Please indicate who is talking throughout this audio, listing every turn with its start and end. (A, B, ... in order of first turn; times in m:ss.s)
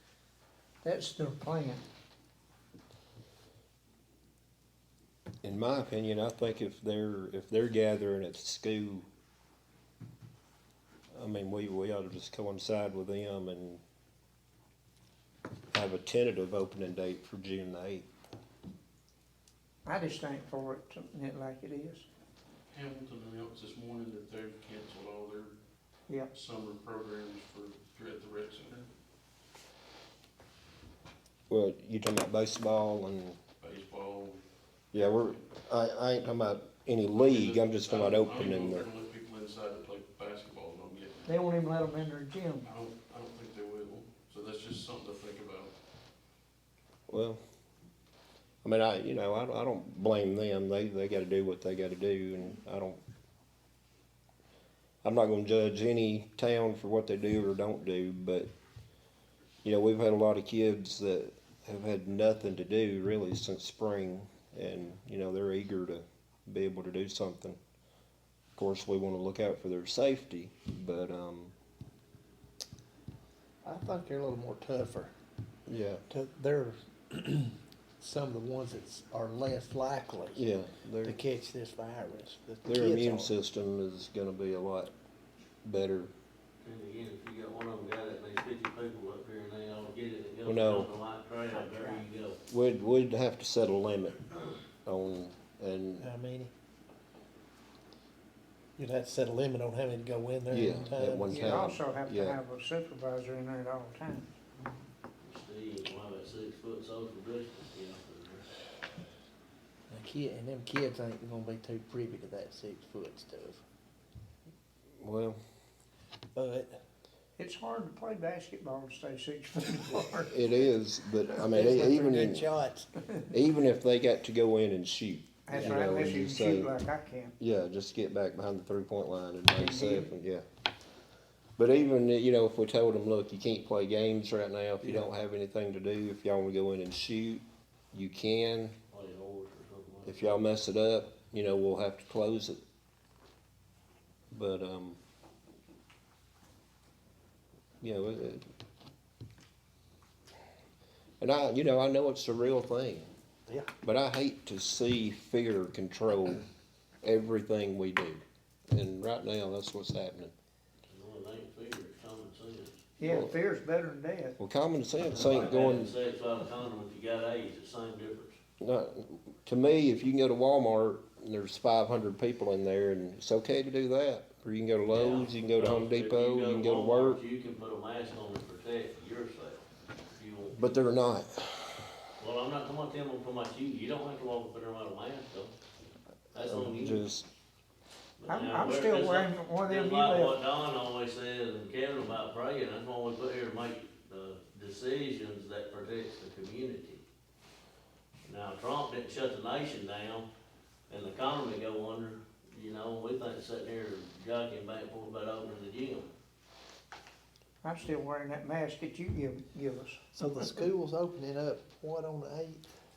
0:00.8-0:01.8 A
0:05.4-0:09.1 B
0:11.1-0:13.8 B
0:15.7-0:18.1 B
0:19.8-0:22.0 A
0:22.7-0:25.5 C
0:26.3-0:28.9 C
0:31.5-0:33.4 B
0:33.6-0:34.4 C
0:34.9-0:38.9 B
0:35.0-0:35.3 C
0:37.1-0:41.3 C
0:41.2-0:42.7 A
0:42.6-0:45.7 C
0:47.1-0:47.4 B
0:48.6-0:53.0 B
0:55.0-0:58.5 B
0:59.6-1:07.6 B
1:08.6-1:11.5 B
1:13.6-1:15.1 D
1:15.7-1:16.0 B
1:16.1-1:20.4 D
1:20.3-1:21.2 B
1:21.0-1:23.3 D
1:22.6-1:24.9 B
1:25.6-1:26.1 B
1:26.6-1:32.4 E
1:30.4-1:30.9 B
1:31.5-1:32.0 A
1:32.5-1:36.0 B
1:36.0-1:36.5 D
1:38.8-1:41.6 D
1:40.5-1:42.4 B
1:41.3-1:44.3 A
1:45.2-1:48.5 E
1:49.9-1:53.6 D
1:55.0-1:55.4 B
1:56.3-1:56.8 D
1:57.4-2:00.4 A
2:00.3-2:02.4 B
2:01.5-2:02.9 D
2:03.3-2:06.7 B
2:05.5-2:07.3 A
2:07.4-2:10.4 B
2:09.5-2:10.1 A
2:11.6-2:18.8 B
2:18.9-2:20.4 E
2:20.0-2:22.6 B
2:24.3-2:25.0 B
2:27.8-2:28.4 B
2:31.2-2:33.1 B
2:33.8-2:36.4 B
2:37.0-2:40.3 B
2:40.9-2:42.8 E
2:43.0-2:44.4 A
2:43.0-2:43.3 B
2:44.4-2:45.9 B
2:45.1-2:48.4 E
2:48.6-2:57.2 B
2:54.9-3:00.7 E
3:00.5-3:01.9 B
3:02.2-3:05.5 E
3:06.3-3:07.0 E
3:06.4-3:07.3 B
3:08.2-3:17.0 E
3:08.3-3:10.4 A
3:18.2-3:20.3 E
3:20.9-3:26.1 E
3:27.6-3:30.0 A
3:30.1-3:32.6 D